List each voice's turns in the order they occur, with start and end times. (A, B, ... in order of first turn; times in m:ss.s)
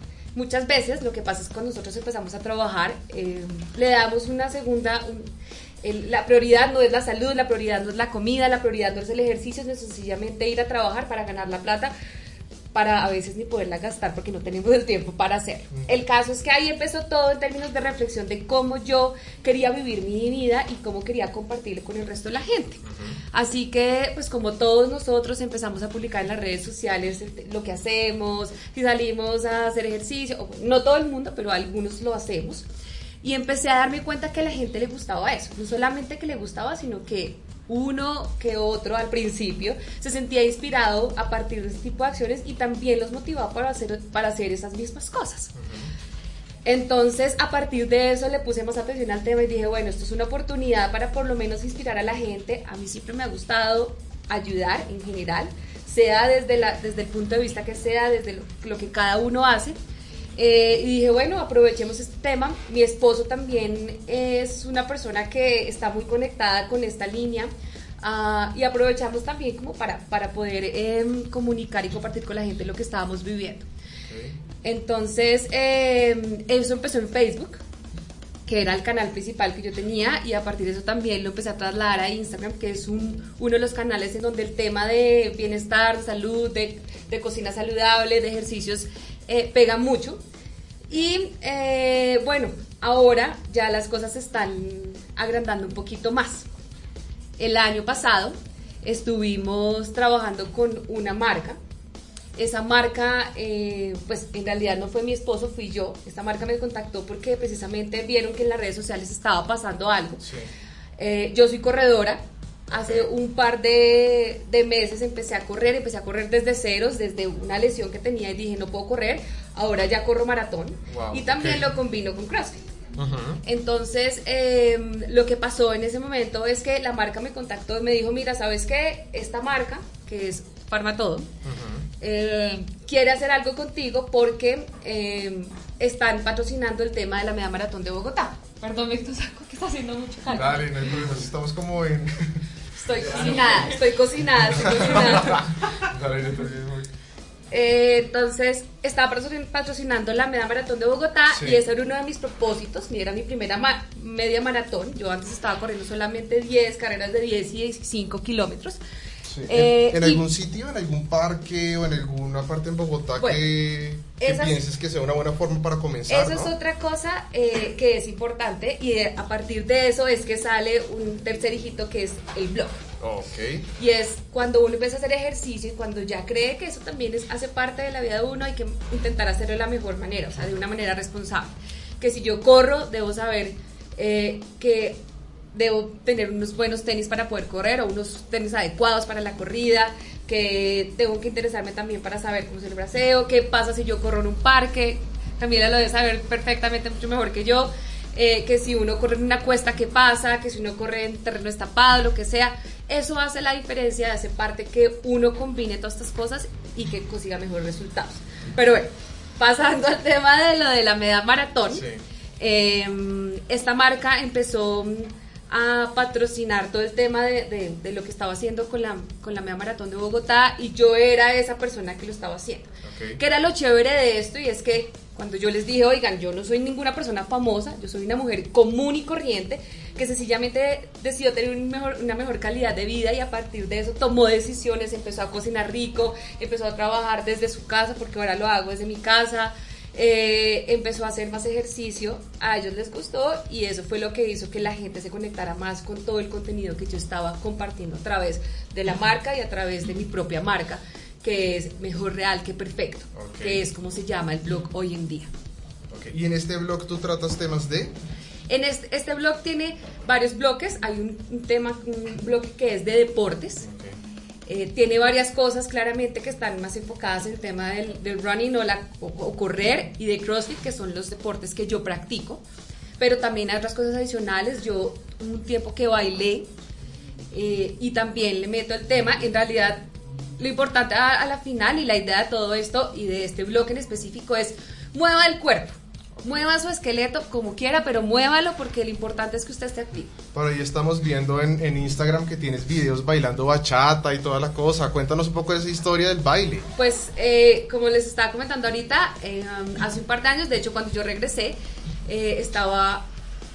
0:00.4-0:11.9 A
0:12.7-0:32.6 A
0:15.7-0:16.0 B
0:22.9-0:23.2 B
0:33.2-0:45.5 A
0:45.6-0:45.9 B
0:46.6-0:59.8 A
1:00.4-1:13.7 A
1:14.1-1:14.4 B
1:14.6-1:17.6 A
1:18.5-1:30.2 A
1:30.9-1:36.5 A
1:37.4-1:41.6 A
1:42.4-1:50.2 A
1:50.2-1:50.5 B
1:51.0-2:02.7 A
1:52.7-1:53.1 B
2:00.9-2:01.7 B
2:03.0-2:03.4 B
2:03.4-2:11.3 A
2:11.4-2:11.9 B
2:12.0-2:20.8 A
2:20.3-2:22.4 B
2:22.8-2:25.4 A
2:22.9-2:23.8 B
2:24.4-2:26.9 B
2:27.5-2:38.8 A
2:31.3-2:31.6 B
2:39.3-2:46.5 B
2:39.5-2:40.2 A
2:43.2-2:43.4 A
2:44.2-2:44.6 A
2:46.1-2:52.8 A
2:53.0-2:53.7 B
2:53.8-3:05.0 A
3:05.5-3:31.8 A
3:31.7-3:32.0 B
3:32.4-4:15.3 A
3:42.8-3:43.2 B
4:13.2-4:13.7 B
4:15.9-4:18.0 B
4:18.5-4:23.7 A
4:23.6-4:24.0 B
4:24.5-4:32.4 A
4:33.0-4:36.5 A
4:37.3-4:39.9 A
4:40.4-4:50.1 A
4:50.3-4:56.7 B
4:56.8-5:03.1 A